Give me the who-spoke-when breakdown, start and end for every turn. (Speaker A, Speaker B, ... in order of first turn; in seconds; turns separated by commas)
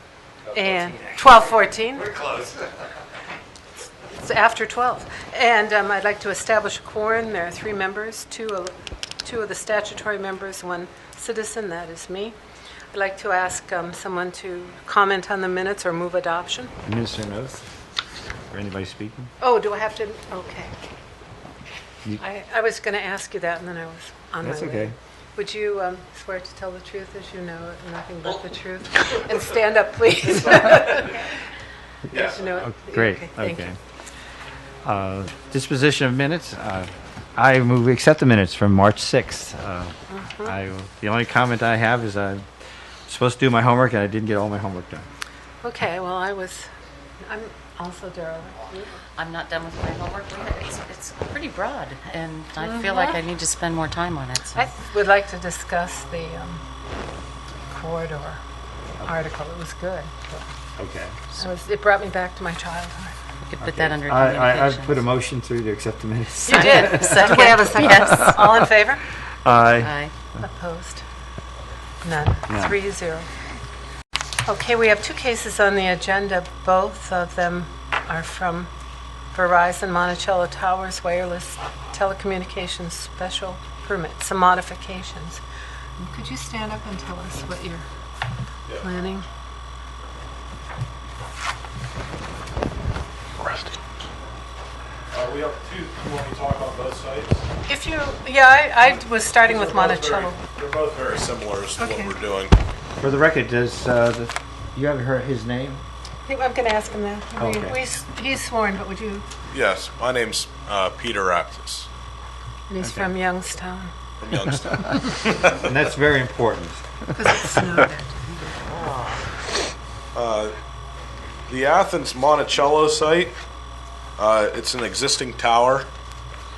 Speaker A: 0.5-1.5, Speaker B: 0.5-2.1, Speaker A: 2.0-2.7, Speaker B: 4.0-12.3, Speaker B: 12.9-16.7, Speaker A: 16.8-17.6, Speaker A: 18.5-19.3, Speaker B: 19.4-20.7, Speaker B: 22.2-31.3, Speaker A: 24.4-24.9, Speaker B: 32.1-33.7, Speaker A: 32.6-33.8, Speaker A: 34.8-42.5, Speaker B: 40.1-40.5, Speaker A: 43.0-45.1, Speaker B: 45.6-46.7, Speaker B: 47.2-49.0, Speaker C: 49.2-54.7, Speaker B: 52.6-53.2, Speaker B: 54.5-56.6, Speaker B: 57.7-58.4, Speaker B: 59.0-60.5, Speaker A: 60.8-61.2, Speaker B: 61.3-63.1, Speaker C: 63.4-65.0, Speaker A: 63.6-68.7, Speaker C: 66.4-68.5, Speaker B: 66.4-69.0, Speaker A: 69.4-69.9, Speaker C: 69.6-70.1, Speaker B: 70.4-71.0, Speaker B: 72.0-73.3, Speaker A: 72.5-72.8, Speaker B: 74.4-78.7, Speaker B: 79.3-85.4, Speaker B: 86.0-87.9, Speaker B: 88.8-89.2, Speaker D: 93.4-93.8, Speaker D: 95.1-97.4, Speaker B: 97.7-100.4, Speaker D: 99.4-102.5, Speaker B: 101.8-102.2, Speaker A: 103.0-105.8, Speaker B: 106.2-109.2, Speaker A: 107.4-107.8, Speaker D: 109.5-111.9, Speaker B: 112.7-113.9, Speaker A: 112.8-113.1, Speaker D: 114.2-115.6, Speaker A: 115.5-117.6, Speaker B: 117.1-118.1, Speaker C: 118.5-119.2, Speaker D: 120.1-120.5, Speaker D: 121.5-123.3, Speaker D: 124.2-125.9